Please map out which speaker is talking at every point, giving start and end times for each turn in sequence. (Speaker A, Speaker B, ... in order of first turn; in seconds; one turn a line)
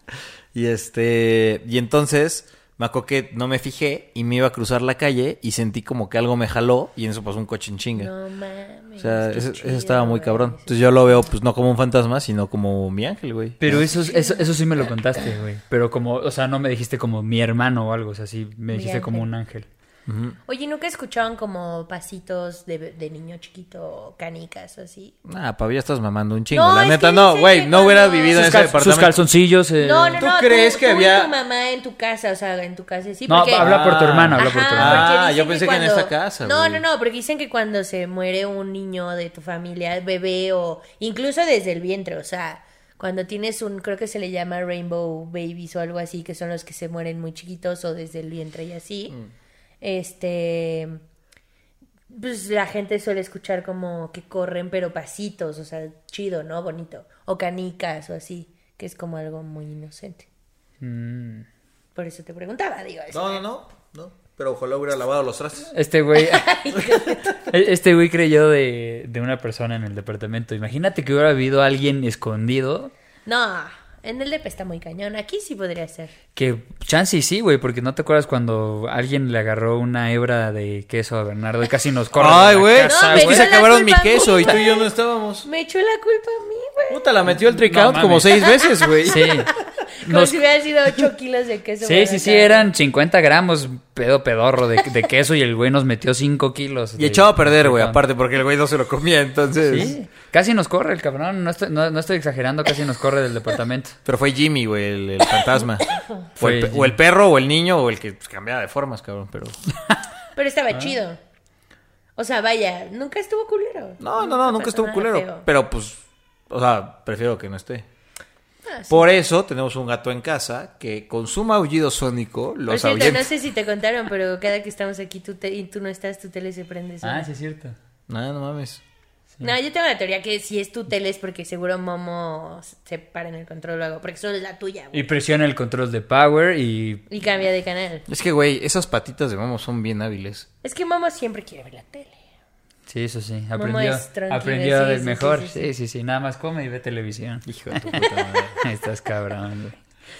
Speaker A: 0.5-8.1
Speaker B: 7.9-11.3
Speaker A: 9.0-13.9
Speaker C: 13.6-19.7
Speaker B: 13.8-14.9
Speaker B: 18.7-19.3
Speaker A: 20.1-20.4
Speaker B: 20.5-25.1
Speaker A: 25.2-29.2
Speaker B: 26.5-28.7
Speaker C: 28.3-30.2
Speaker B: 29.8-49.2
Speaker A: 30.2-31.3
Speaker C: 33.3-35.1
Speaker A: 33.5-36.8
Speaker B: 49.8-51.0
Speaker B: 52.1-60.3
Speaker C: 60.8-61.5
Speaker B: 62.0-63.4
Speaker A: 63.1-65.7
Speaker C: 65.7-66.6
Speaker B: 66.1-67.4
Speaker C: 67.3-72.9
Speaker B: 73.3-76.1
Speaker C: 76.3-83.5
Speaker A: 82.2-85.5
Speaker B: 82.8-84.9
Speaker B: 85.4-87.1
Speaker A: 86.9-89.3
Speaker C: 87.3-89.5
Speaker B: 88.5-92.7
Speaker C: 90.0-90.4
Speaker C: 91.8-98.0
Speaker A: 97.0-99.9
Speaker C: 99.7-104.0
Speaker A: 104.0-109.6
Speaker B: 105.9-106.2
Speaker C: 106.4-107.0
Speaker B: 110.4-111.2
Speaker B: 112.2-115.5
Speaker A: 114.0-117.8
Speaker B: 118.7-119.1
Speaker A: 118.9-123.3
Speaker B: 122.7-127.3
Speaker C: 127.0-127.8
Speaker A: 128.1-128.8
Speaker B: 129.4-135.1
Speaker C: 134.9-137.1
Speaker B: 137.1-138.1
Speaker A: 138.1-140.5
Speaker B: 140.6-142.2
Speaker C: 142.9-148.0
Speaker B: 143.6-145.7
Speaker A: 147.5-148.6
Speaker C: 148.6-149.8